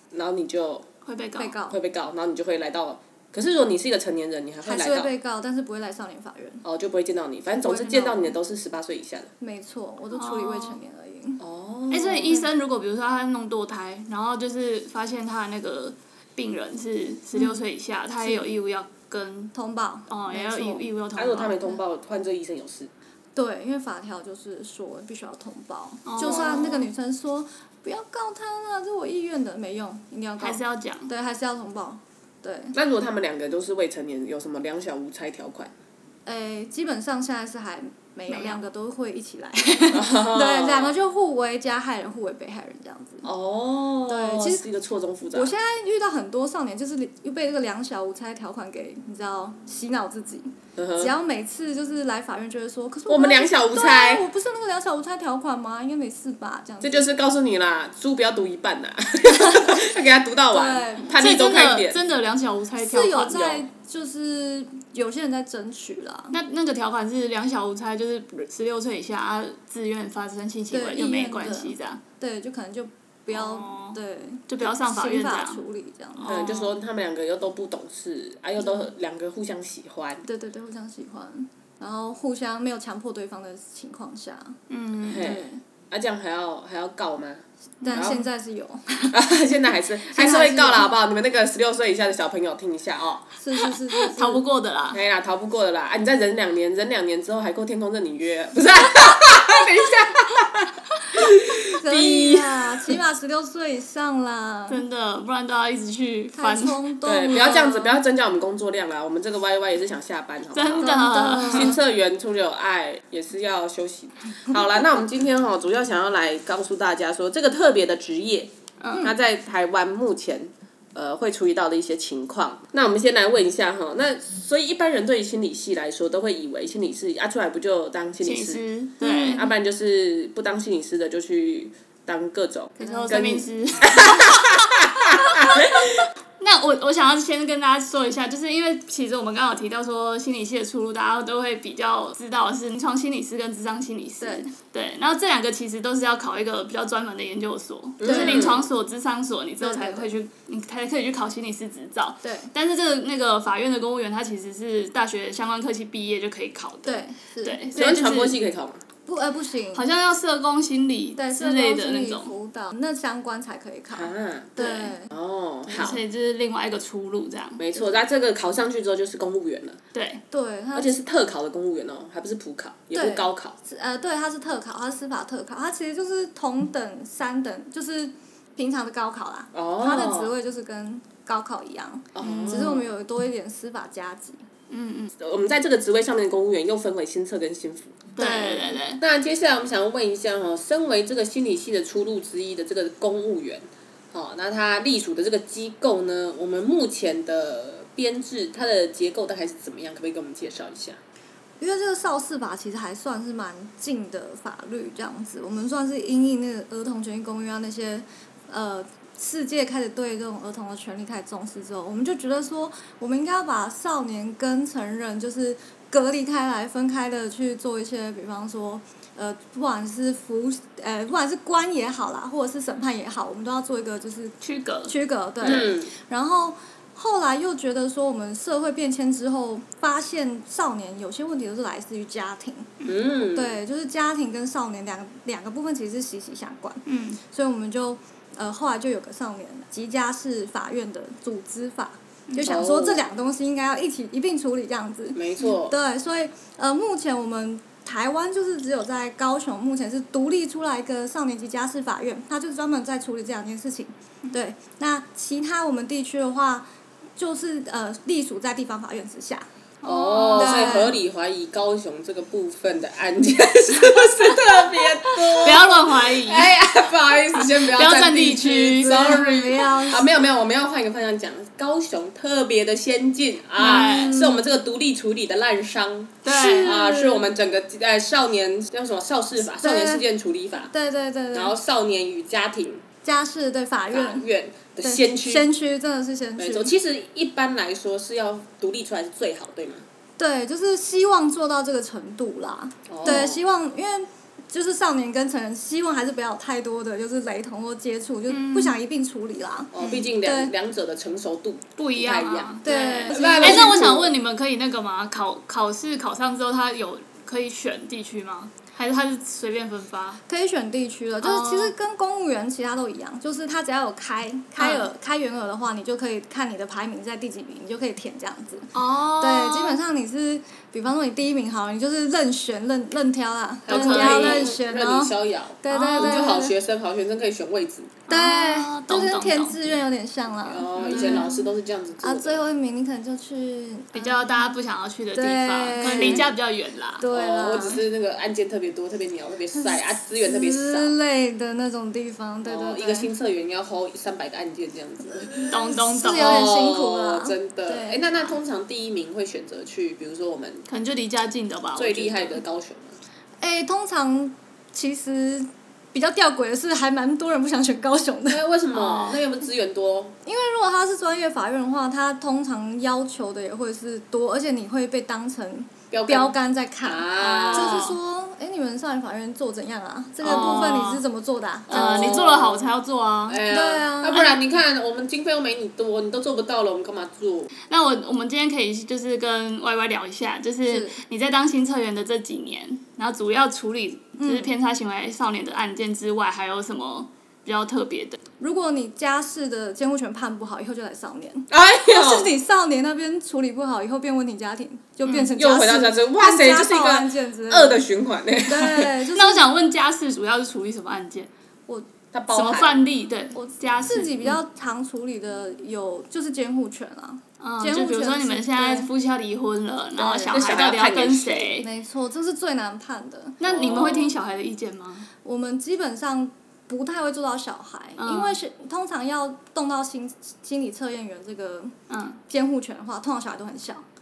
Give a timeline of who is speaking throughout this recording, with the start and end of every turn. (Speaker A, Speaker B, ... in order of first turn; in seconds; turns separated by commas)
Speaker A: 0.1-0.8, Speaker B: 1.0-1.6, Speaker C: 1.4-1.8, Speaker A: 1.7-5.1, Speaker C: 4.6-6.6, Speaker A: 6.6-9.3, Speaker C: 7.6-8.3, Speaker C: 9.4-11.4, Speaker B: 10.1-10.8, Speaker A: 11.4-12.4, Speaker B: 11.9-19.5, Speaker C: 18.2-18.5, Speaker C: 19.5-20.9, Speaker B: 20.1-21.8, Speaker A: 21.1-22.9, Speaker C: 23.4-32.8, Speaker B: 26.1-26.9, Speaker A: 26.2-26.8, Speaker B: 30.4-31.1, Speaker A: 32.7-35.7, Speaker C: 36.2-43.3, Speaker B: 38.3-38.6, Speaker A: 39.9-40.9, Speaker A: 43.2-45.5, Speaker C: 44.1-44.6, Speaker C: 45.3-57.0, Speaker A: 50.8-51.1, Speaker A: 53.1-54.3, Speaker A: 56.8-62.0, Speaker C: 59.3-59.8, Speaker C: 60.5-61.1, Speaker B: 61.1-63.6, Speaker C: 62.8-66.4, Speaker B: 66.3-72.0, Speaker C: 70.7-76.4, Speaker B: 73.3-74.0, Speaker B: 74.5-75.6, Speaker B: 76.2-76.7, Speaker A: 76.2-80.2, Speaker C: 80.2-84.6, Speaker B: 84.7-85.3, Speaker A: 85.0-88.2, Speaker C: 85.1-85.6, Speaker C: 87.8-89.2, Speaker A: 89.1-93.3, Speaker C: 90.0-90.9, Speaker C: 93.4-94.4, Speaker B: 93.6-95.0, Speaker A: 94.9-103.0, Speaker C: 101.7-104.8, Speaker B: 104.7-107.9, Speaker C: 106.3-107.6, Speaker A: 107.0-128.6, Speaker B: 110.5-111.8, Speaker C: 110.8-111.8, Speaker B: 118.8-119.1, Speaker B: 128.2-129.4, Speaker C: 129.0-129.5, Speaker A: 129.3-136.0, Speaker B: 132.8-158.4, Speaker C: 132.8-133.1, Speaker C: 144.2-144.4, Speaker A: 148.0-148.6, Speaker C: 148.0-148.6, Speaker C: 149.6-150.1, Speaker C: 152.2-152.5, Speaker C: 156.8-157.7, Speaker A: 157.7-158.8, Speaker C: 159.1-159.8, Speaker B: 159.7-162.3, Speaker C: 161.2-165.1, Speaker A: 163.9-166.0, Speaker B: 164.6-164.9, Speaker B: 165.7-167.6, Speaker A: 167.6-169.8, Speaker B: 169.9-170.2, Speaker C: 170.3-171.0, Speaker A: 170.7-173.6, Speaker C: 172.9-184.4, Speaker A: 179.5-180.3, Speaker A: 182.1-182.9, Speaker B: 182.2-182.7, Speaker B: 184.7-185.1, Speaker A: 185.2-188.0, Speaker B: 188.2-189.0, Speaker C: 188.2-188.8, Speaker A: 189.0-201.0, Speaker C: 201.6-232.7, Speaker B: 224.4-224.9, Speaker A: 225.4-225.9, Speaker A: 232.8-233.6, Speaker C: 233.2-256.6, Speaker B: 236.9-237.2, Speaker B: 242.3-242.5, Speaker A: 242.4-243.1, Speaker A: 245.1-245.7, Speaker C: 257.2-259.4, Speaker B: 259.8-260.9, Speaker A: 259.8-280.7, Speaker C: 260.3-260.9, Speaker B: 265.1-266.6, Speaker B: 267.3-269.2, Speaker C: 268.7-270.1, Speaker B: 273.6-274.2, Speaker C: 273.6-274.4, Speaker B: 276.2-276.8, Speaker C: 276.3-277.2, Speaker C: 279.6-280.0, Speaker C: 280.7-281.5, Speaker A: 281.3-282.8, Speaker C: 283.0-284.2, Speaker A: 283.9-285.5, Speaker C: 284.8-286.7, Speaker A: 286.4-289.8, Speaker C: 290.2-300.5, Speaker A: 292.9-293.4, Speaker B: 298.3-298.8, Speaker A: 299.7-302.6, Speaker B: 299.8-300.1, Speaker B: 301.8-310.2, Speaker C: 302.6-303.9, Speaker A: 303.1-304.1, Speaker C: 310.3-326.5, Speaker B: 311.2-311.7, Speaker B: 314.6-314.9, Speaker B: 318.7-319.8, Speaker A: 323.6-327.9, Speaker B: 323.7-324.5, Speaker B: 325.7-326.4, Speaker B: 328.1-329.7, Speaker C: 328.1-331.4, Speaker A: 330.4-332.4, Speaker B: 330.7-331.4, Speaker C: 332.0-334.5, Speaker B: 333.9-337.1, Speaker C: 335.1-336.3, Speaker A: 335.8-336.3, Speaker C: 337.0-337.8, Speaker A: 337.1-340.9, Speaker C: 339.6-343.1, Speaker A: 342.4-345.5, Speaker C: 345.3-348.0, Speaker B: 345.5-346.5, Speaker A: 346.1-350.6, Speaker B: 350.7-352.4, Speaker A: 351.8-353.0, Speaker C: 353.4-358.4, Speaker A: 358.3-360.1, Speaker B: 358.7-359.2, Speaker C: 360.2-372.2, Speaker A: 365.9-367.9, Speaker B: 367.2-367.9, Speaker B: 370.2-371.0, Speaker A: 371.7-372.7, Speaker B: 371.7-373.4, Speaker A: 373.3-377.5, Speaker C: 373.4-374.3, Speaker B: 377.7-388.2, Speaker C: 380.6-381.0, Speaker C: 384.2-384.5, Speaker C: 388.4-397.8, Speaker A: 391.5-392.3, Speaker A: 395.3-398.9, Speaker C: 398.4-399.5, Speaker B: 399.1-401.3, Speaker A: 402.1-402.8, Speaker B: 402.3-404.3, Speaker C: 403.3-408.9, Speaker B: 407.4-411.7, Speaker A: 410.0-411.5, Speaker C: 411.6-413.4, Speaker B: 413.4-415.1, Speaker A: 413.4-414.1, Speaker C: 415.2-421.8, Speaker B: 418.0-418.4, Speaker B: 421.9-422.2, Speaker C: 422.3-423.8